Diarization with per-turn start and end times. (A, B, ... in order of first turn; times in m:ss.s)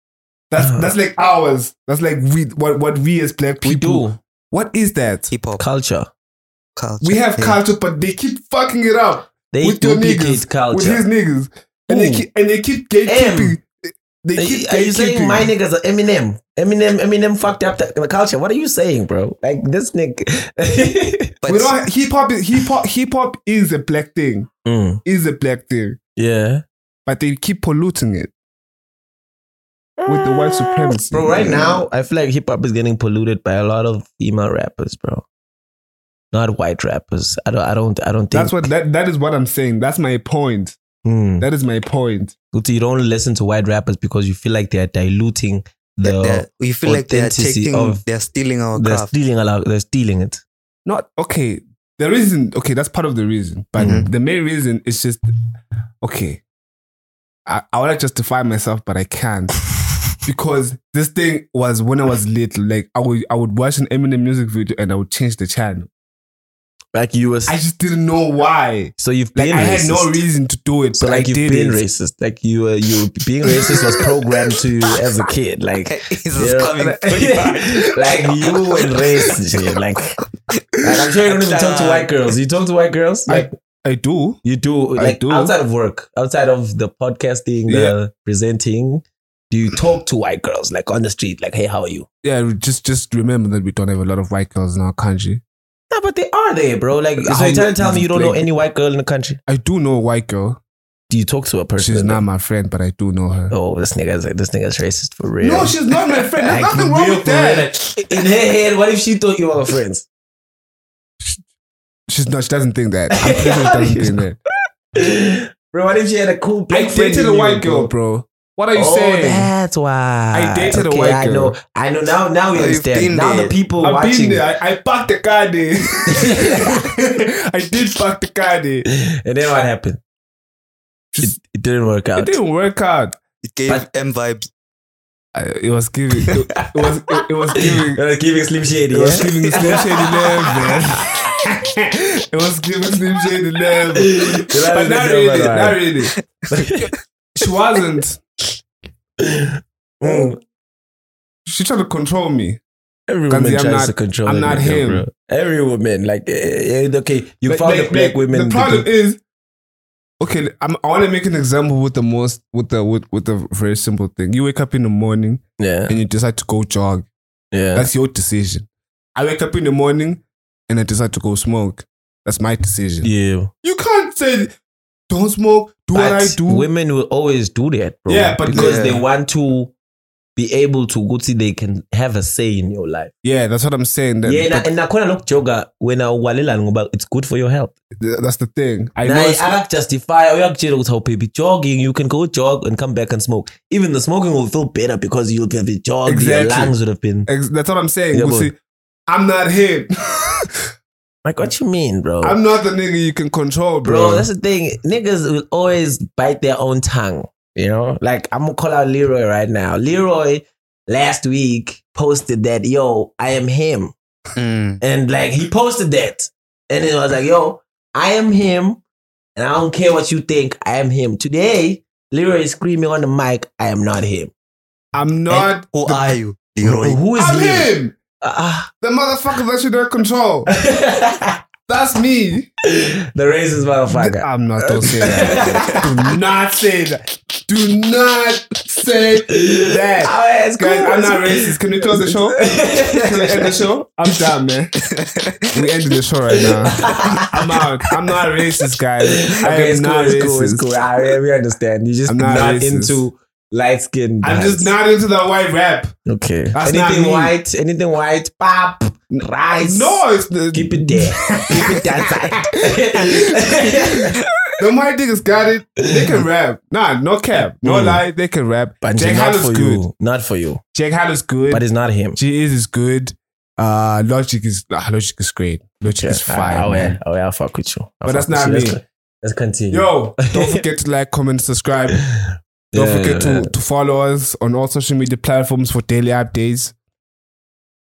0:00.5-0:05.3 A
0:00.6-0:00.9 B
0:03.6-0:04.2 B
0:05.3-0:05.6 C
0:05.6-0:06.1 B
0:06.8-0:07.6 C
0:07.0-0:15.5 A
0:09.5-0:11.0 B
0:11.9-0:12.2 B
0:13.1-0:13.6 B
0:14.4-0:21.4 B
0:21.4-0:21.8 C
0:21.5-0:24.5 A
0:24.6-0:25.0 B
0:25.0-0:26.0 A
0:26.2-0:26.6 B
0:27.1-0:28.3 A
0:30.0-0:35.3 B
0:30.1-0:31.5 A
0:31.4-0:31.8 C
0:36.3-0:38.7 B
0:38.3-0:40.8 A
0:41.0-0:41.5 B
0:41.4-0:42.3 A
0:42.5-0:48.0 B
0:46.0-0:49.1 C
0:48.8-0:50.4 B
0:50.9-0:55.2 A
0:53.8-0:54.1 C
0:56.0-0:56.4 A
0:57.5-0:59.6 A
1:00.2-1:05.9 A
1:06.9-1:07.6 B
1:07.5-1:11.8 A
1:09.0-1:10.2 B
1:11.0-1:20.2 B
1:13.7-1:14.0 A
1:15.9-1:17.6 C
1:18.4-1:19.0 A
1:20.6-1:22.1 C
1:20.8-1:23.5 B
1:23.3-1:24.4 A
1:24.4-1:32.1 B
1:25.0-1:25.5 A
1:27.7-1:28.0 A
1:32.2-1:35.4 A
1:35.9-1:39.4 B
1:37.2-1:38.5 A
1:39.5-1:40.6 A
1:41.1-1:42.2 B
1:41.8-1:43.5 A
1:43.5-1:50.1 B
1:45.4-1:48.2 A
1:52.1-1:54.4 A
1:53.1-1:54.2 B
1:55.0-1:57.9 B
1:56.7-1:59.5 A
1:58.7-2:04.4 B
2:00.3-2:01.6 A
2:02.5-2:03.6 C
2:03.8-2:08.8 A
2:06.1-2:06.8 B
2:08.9-2:10.0 B
2:11.1-2:11.4 A
2:11.2-2:12.4 B
2:12.2-2:13.2 A
2:13.4-2:14.5 C
2:15.4-2:18.0 A
2:16.1-2:21.4 B
2:18.9-2:24.2 A
2:24.0-2:25.9 B
2:24.7-2:26.1 A
2:26.5-2:26.8 C
2:26.5-2:26.9 B
2:27.4-2:28.2 A
2:29.2-2:30.4 B
2:31.5-2:32.6 A
2:33.1-2:38.9 B
2:33.3-2:35.1 A
2:37.5-2:39.2 A
2:40.2-2:47.1 A
2:45.6-2:46.0 B
2:47.5-2:47.9 B
2:47.7-2:53.1 A
2:53.0-2:53.5 B
2:53.6-2:54.5 A
2:55.1-2:56.7 A
2:55.9-2:59.7 B
2:58.1-2:58.8 A
2:58.5-2:59.0 C
3:00.4-3:03.1 B
3:03.2-3:04.7 A
3:04.2-3:07.7 B
3:08.0-3:09.6 A
3:09.0-3:17.3 B
3:16.1-3:16.7 A
3:17.3-3:18.6 A
3:18.1-3:18.5 B
3:19.1-3:20.5 A
3:21.2-3:22.4 B
3:22.2-3:24.3 A
3:23.8-3:33.9 B
3:34.4-3:34.8 C
3:34.8-3:38.8 B
3:39.4-3:44.3 B
3:44.9-3:46.2 A
3:45.3-3:47.0 C
3:46.6-3:48.7 B
3:47.2-3:48.0 A
3:48.8-3:50.5 A
3:50.5-3:51.4 B
3:51.7-3:52.5 A
3:52.7-3:55.8 B
3:53.9-4:04.7 A
3:59.4-4:03.6 B
4:04.9-4:05.7 C
4:05.5-4:10.7 A
4:06.4-4:07.3 B
4:09.1-4:14.7 B
4:12.1-4:13.0 A
4:14.2-4:16.0 A
4:16.1-4:24.2 B
4:16.6-4:17.3 A
4:19.1-4:22.1 A
4:24.6-4:29.9 A
4:27.6-4:28.0 B
4:28.8-4:30.6 B
4:30.7-4:31.6 A
4:31.5-4:32.2 B
4:32.2-4:37.0 A
4:35.9-4:40.6 B
4:38.0-4:38.8 A
4:39.7-4:42.0 A
4:41.9-4:42.2 B
4:42.7-4:43.5 B
4:42.7-4:46.7 A